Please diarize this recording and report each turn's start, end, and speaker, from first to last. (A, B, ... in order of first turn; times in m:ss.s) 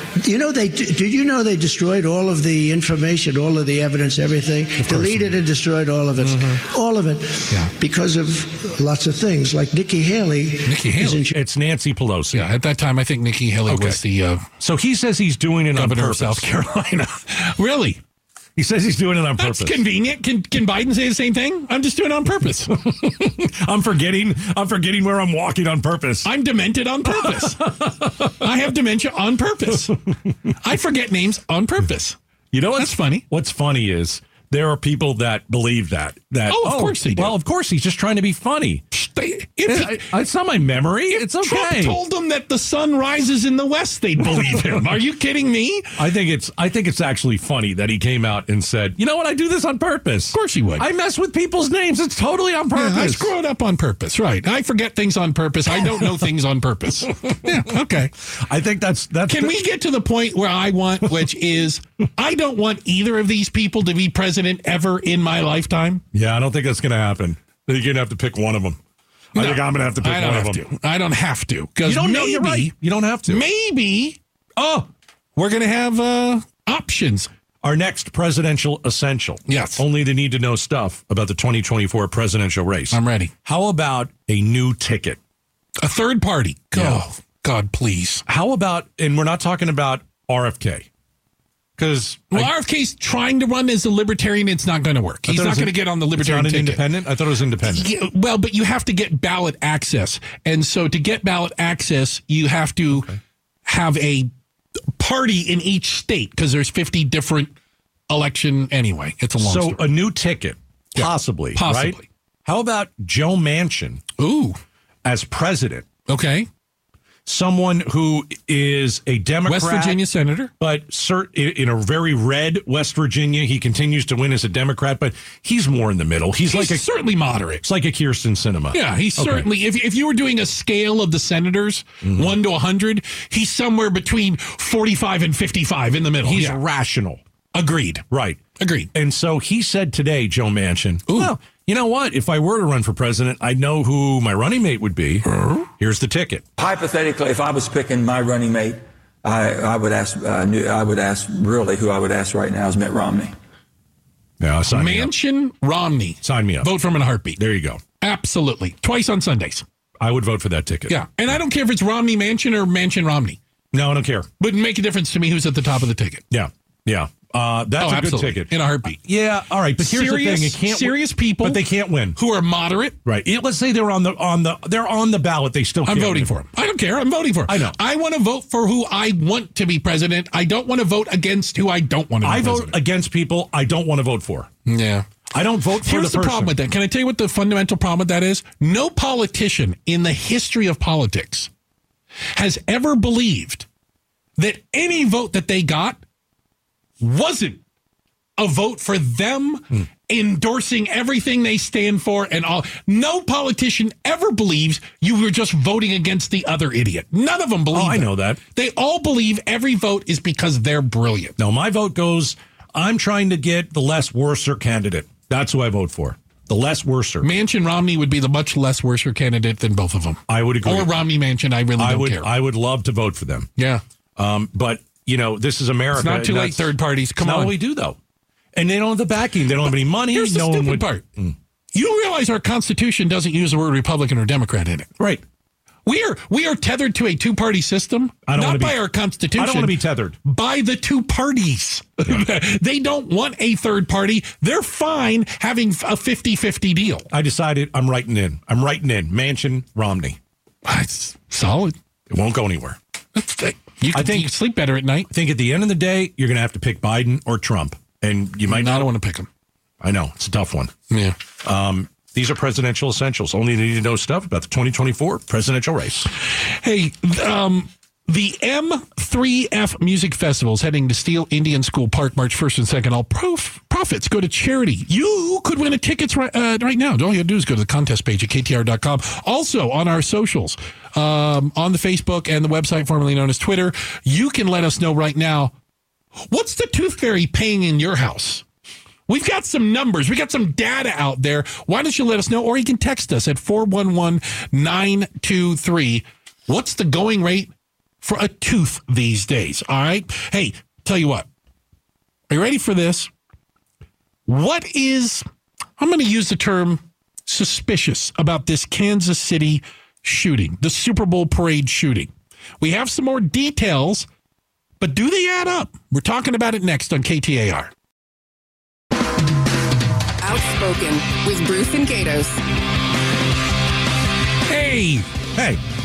0:00.2-0:11.3 A
0:04.8-0:05.3 B
0:06.2-0:06.6 B
0:10.6-0:11.2 B
0:11.2-0:12.5 C
0:12.3-0:14.4 B
0:13.7-0:14.0 C
0:14.6-0:16.5 C
0:15.7-0:18.0 B
0:18.6-0:19.8 C
0:19.4-0:22.7 B
0:22.7-0:26.3 C
0:26.2-0:30.0 B
0:27.1-0:28.5 C
0:30.6-0:32.2 B
0:32.5-0:38.8 C
0:32.8-0:33.2 B
0:36.5-0:37.3 B
0:38.9-0:40.1 B
0:39.6-0:42.0 C
0:41.1-0:46.0 B
0:44.3-0:44.8 C
0:46.0-0:53.3 C
0:50.3-0:50.8 B
0:52.7-0:58.1 B
0:57.3-0:57.6 C
0:58.3-0:59.6 C
0:59.3-1:06.0 B
1:06.1-1:08.8 C
1:09.3-1:10.6 C
1:09.3-1:12.7 B
1:11.8-1:13.4 C
1:13.3-1:14.2 B
1:14.6-1:14.9 C
1:15.4-1:17.3 B
1:17.6-1:25.2 C
1:19.5-1:19.8 B
1:22.9-1:23.3 B
1:25.8-1:28.2 B
1:26.7-1:27.0 C
1:28.2-1:30.9 C
1:31.8-1:32.5 C
1:32.3-1:36.8 B
1:35.2-1:37.9 C
1:37.6-1:43.1 B
1:42.9-1:43.2 C
1:43.6-1:44.3 B
1:45.0-1:47.5 B
1:48.1-1:49.9 B
1:49.4-1:54.0 C
1:51.0-1:52.0 B
1:54.2-1:54.6 B
1:55.0-1:55.9 C
1:56.1-1:56.5 B
1:57.2-2:00.0 C
1:59.4-2:00.5 B
2:00.6-2:06.8 C
2:06.4-2:07.6 B
2:07.6-2:09.5 C
2:08.7-2:16.6 B
2:12.0-2:12.4 C
2:16.2-2:17.2 C
2:17.5-2:18.0 B
2:18.1-2:18.4 C
2:18.6-2:18.9 B
2:18.9-2:25.3 C
2:21.1-2:21.3 B
2:25.3-2:25.7 B
2:25.8-2:26.4 C
2:26.6-2:33.3 D
2:34.4-2:35.1 C
2:34.7-2:37.4 B
2:36.2-2:36.7 C
2:37.4-2:37.8 C
2:38.0-2:39.6 B
2:40.0-2:41.0 C
2:40.9-2:43.4 B
2:43.7-2:44.3 C
2:44.4-2:46.2 B
2:46.3-2:52.2 C
2:47.8-2:49.0 B
2:49.8-2:51.6 B
2:52.1-2:53.0 B
2:53.0-2:56.3 C
2:55.8-3:02.8 B
2:57.5-2:57.8 C
3:02.2-3:04.5 C
3:04.6-3:05.0 B
3:05.3-3:06.5 C
3:05.8-3:11.5 B
3:12.3-3:13.6 B
3:14.4-3:16.0 B
3:17.0-3:17.6 B
3:18.4-3:31.4 B
3:27.7-3:28.4 C
3:31.4-3:37.3 C
3:37.2-3:42.3 B
3:40.3-3:41.0 C
3:41.8-3:43.5 C
3:44.2-3:48.0 C
3:45.9-3:47.6 B
3:48.5-3:51.3 C
3:50.0-3:51.0 B
3:51.7-3:54.9 B
3:55.8-4:07.1 B
3:58.2-3:58.8 C
3:59.3-4:00.2 C
4:07.1-4:10.2 C
4:10.6-4:11.8 B
4:12.1-4:12.8 C
4:13.2-4:15.1 B
4:13.9-4:14.3 C
4:15.1-4:18.9 C
4:18.5-4:19.3 B
4:19.8-4:20.7 C
4:20.9-4:21.2 B
4:21.4-4:26.1 C
4:26.3-4:45.5 B
4:46.3-4:48.4 B
4:49.1-4:57.5 B
4:58.0-5:01.3 B
5:02.3-5:03.1 B
5:04.3-5:05.2 B
5:05.8-5:14.1 B
5:14.8-5:17.7 B
5:20.2-5:22.4 E
5:24.5-5:25.1 B
5:25.3-5:25.6 C